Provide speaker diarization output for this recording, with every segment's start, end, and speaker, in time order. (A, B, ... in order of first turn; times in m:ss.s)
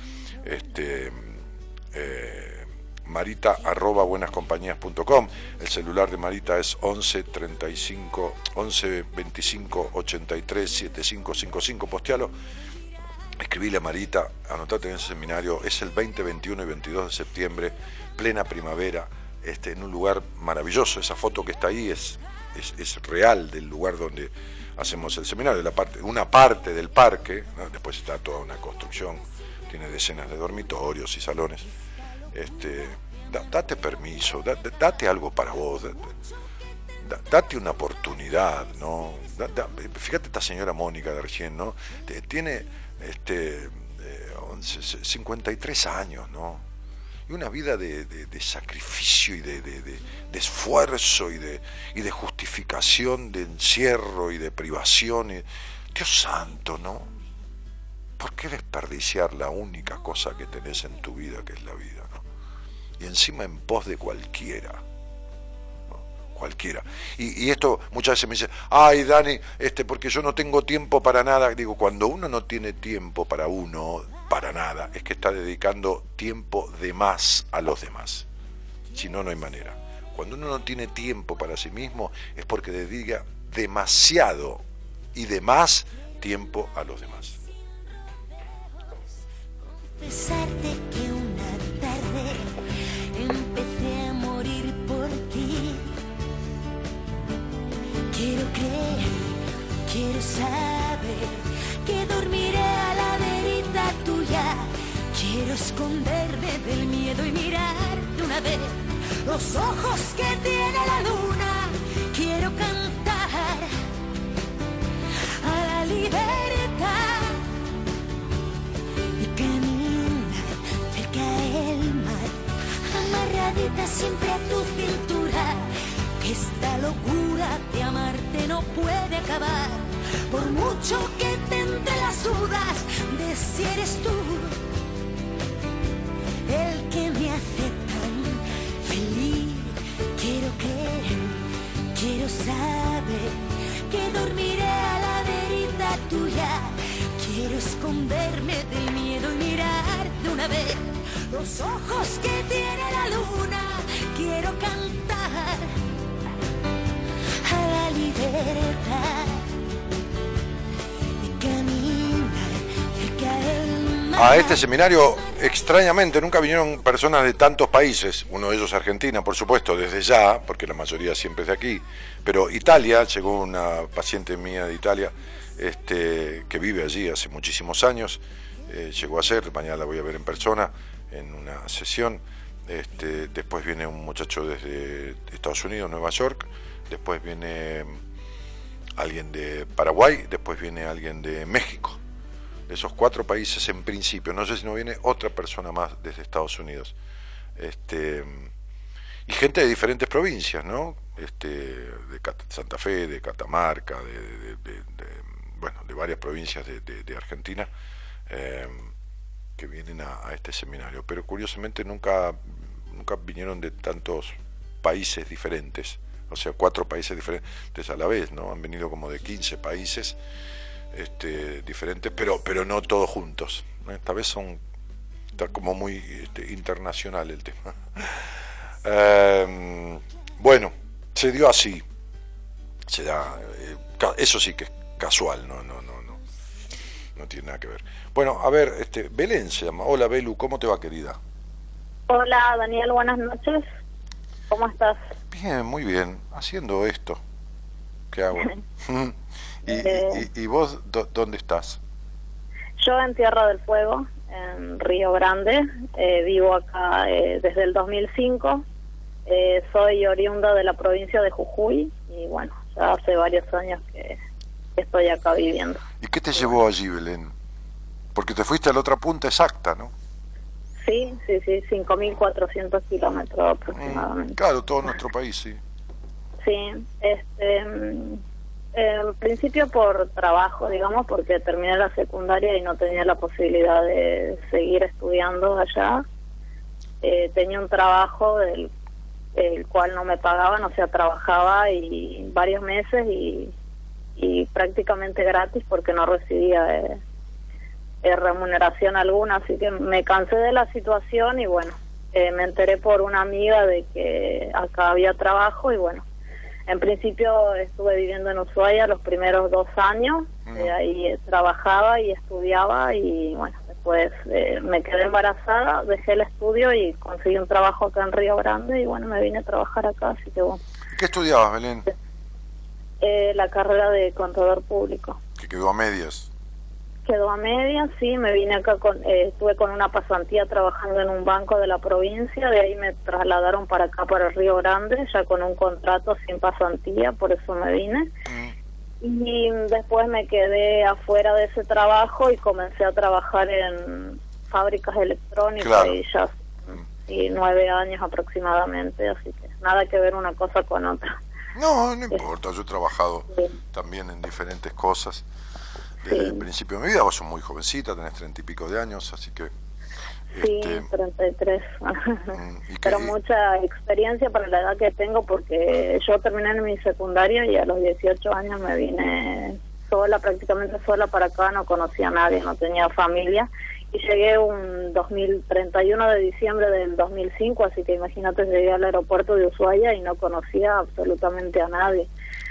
0:00.4-0:12.3 A
0:13.4-0:31.7 A
0:32.3-0:36.1 A
0:37.0-0:46.6 A
0:47.3-0:57.1 A
0:58.2-1:02.2 A
1:03.0-1:04.8 A
1:05.9-1:18.2 A
1:18.9-1:24.6 A
1:25.1-1:27.4 A
1:30.0-1:32.5 B
1:33.1-1:35.9 B
1:38.1-1:53.7 B
1:55.4-1:57.4 B
1:59.2-2:02.4 B
2:02.9-2:05.7 B
2:06.2-2:14.6 B
2:16.5-2:35.7 B
2:37.4-2:39.5 B
2:41.2-2:44.6 B
2:44.1-3:08.0 A
3:09.0-3:12.0 A
3:12.7-3:16.9 A
3:17.6-3:18.5 A
3:19.3-3:27.7 A
3:28.3-3:28.9 A
3:29.6-3:40.2 A
3:40.9-3:44.6 A
3:45.4-3:48.3 A
3:48.8-3:51.8 A
3:52.9-3:56.2 A
3:57.2-4:01.2 A
4:02.1-4:03.6 C
4:04.5-4:05.0 C
4:05.3-4:07.2 A
4:08.1-4:11.8 A
4:09.6-4:10.2 C
4:12.8-4:18.6 C
4:19.3-4:24.2 C
4:24.8-4:25.8 C
4:26.0-4:27.3 A
4:28.1-4:29.9 A
4:30.8-4:34.4 C
4:33.7-4:35.6 A
4:36.4-4:38.2 C
4:38.7-4:46.0 C
4:47.0-4:48.7 C
4:49.4-4:53.5 C
4:54.2-4:57.0 C
4:58.0-5:06.0 C
5:06.7-5:20.6 C
5:10.4-5:10.7 A
5:20.9-5:21.9 A
5:23.0-5:25.2 C
5:25.4-5:26.3 A
5:27.0-5:38.1 C
5:38.3-5:38.5 A
5:39.0-5:46.4 C
5:45.6-5:46.0 A
5:47.0-5:51.1 C
5:51.6-5:55.2 A
5:56.0-5:59.5 A
5:56.1-5:56.4 C
6:00.3-6:00.9 A
6:00.4-6:22.1 C
6:02.3-6:03.1 A